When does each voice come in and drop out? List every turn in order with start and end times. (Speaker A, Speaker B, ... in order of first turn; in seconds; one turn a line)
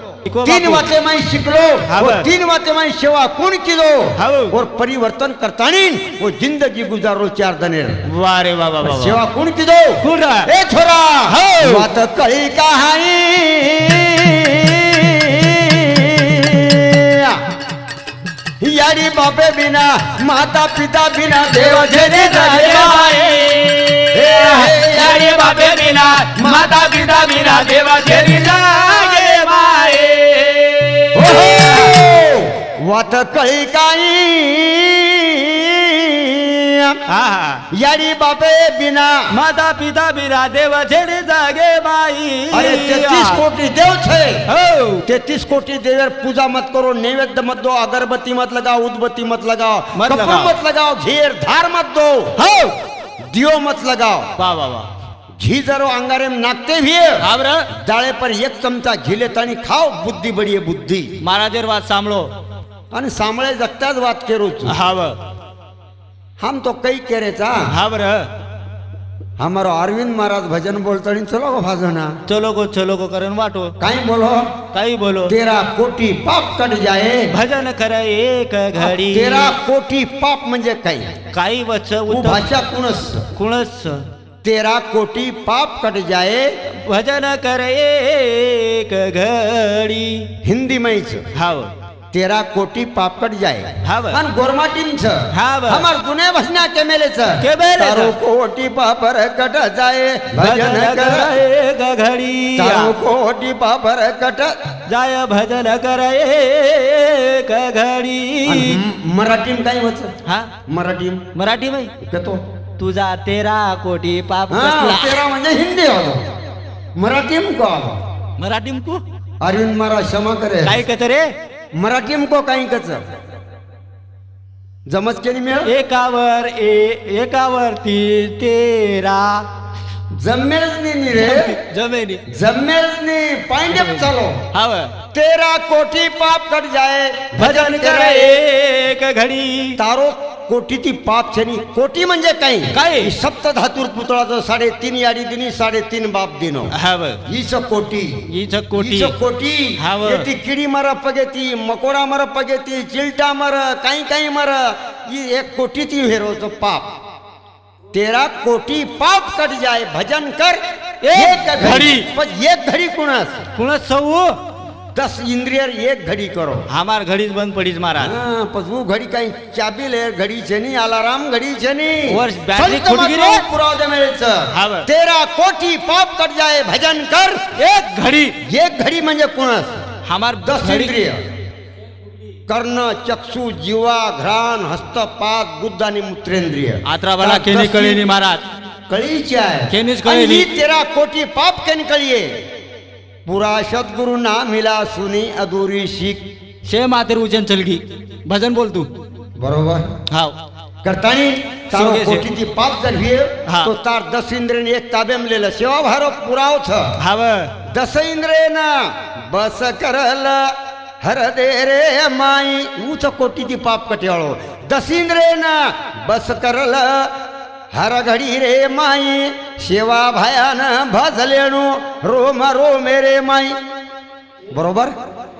Speaker A: 0.2-0.8
Speaker B: 0.4-8.0
Speaker A: 1.9-2.3
Speaker A: 4.2-4.5
Speaker A: 8.1-9.2
Speaker B: 8.8-17.4
Speaker A: 10.0-10.5
Speaker A: 11.3-11.9
Speaker B: 18.6-23.1
Speaker A: 21.5-32.0
Speaker B: 24.1-25.8
Speaker B: 26.4-26.7
Speaker B: 31.1-37.0
Speaker A: 37.1-37.6
Speaker B: 37.7-39.3
Speaker A: 39.3-43.4
Speaker B: 42.5-44.4
Speaker A: 44.5-45.0
Speaker B: 45.0-52.4
Speaker A: 49.9-50.5
Speaker A: 52.4-52.8
Speaker B: 53.2-54.3
Speaker A: 54.4-54.9
Speaker B: 55.4-61.1
Speaker A: 57.2-57.7
Speaker A: 61.2-62.3
Speaker B: 62.9-64.8
Speaker A: 64.7-65.2
Speaker B: 66.4-67.7
Speaker A: 67.7-68.3
Speaker B: 69.4-72.2
Speaker A: 72.3-73.7
Speaker B: 73.8-74.5
Speaker A: 74.7-75.3
Speaker B: 75.3-77.3
Speaker A: 77.3-79.5
Speaker B: 78.8-81.1
Speaker A: 81.3-82.5
Speaker B: 82.1-83.3
Speaker A: 83.3-84.0
Speaker B: 84.4-86.5
Speaker A: 86.7-90.3
Speaker B: 90.4-91.3
Speaker A: 91.3-91.7
Speaker B: 92.1-101.4
Speaker A: 93.8-94.2
Speaker A: 95.3-95.9
Speaker A: 97.4-98.1
Speaker A: 100.4-102.9
Speaker B: 102.5-104.6
Speaker A: 104.9-108.8
Speaker B: 108.5-110.1
Speaker A: 110.2-110.5
Speaker B: 110.7-111.2
Speaker A: 111.3-111.9
Speaker B: 112.0-112.4
Speaker A: 112.8-115.2
Speaker B: 114.5-116.3
Speaker B: 117.0-118.0
Speaker A: 118.4-119.0
Speaker B: 119.4-120.8
Speaker A: 120.6-121.3
Speaker B: 121.8-123.1
Speaker B: 124.9-125.7
Speaker A: 125.6-129.5
Speaker B: 130.2-131.6
Speaker A: 131.1-132.2
Speaker B: 132.3-134.5
Speaker A: 133.7-134.9
Speaker B: 135.1-138.4
Speaker A: 137.4-139.8
Speaker B: 139.8-156.9
Speaker A: 142.7-143.1
Speaker A: 146.7-147.2
Speaker A: 148.3-149.1
Speaker A: 149.8-150.3
Speaker B: 157.9-163.4
Speaker A: 161.0-162.1
Speaker A: 163.6-164.4
Speaker B: 164.9-166.7
Speaker A: 166.7-168.1
Speaker B: 168.0-177.5
Speaker A: 172.1-173.4
Speaker A: 174.5-174.9
Speaker A: 177.6-178.4
Speaker B: 178.4-179.8
Speaker A: 180.1-180.9
Speaker B: 180.4-181.2
Speaker B: 182.5-188.0
Speaker A: 186.8-188.4
Speaker B: 188.9-192.3
Speaker A: 189.7-190.5
Speaker B: 193.2-196.2
Speaker A: 196.7-198.9
Speaker B: 199.4-199.9
Speaker A: 200.1-200.3
Speaker B: 200.8-206.9
Speaker A: 201.7-202.3
Speaker A: 207.0-207.5
Speaker B: 207.6-217.1
Speaker B: 217.7-223.6
Speaker B: 224.5-224.9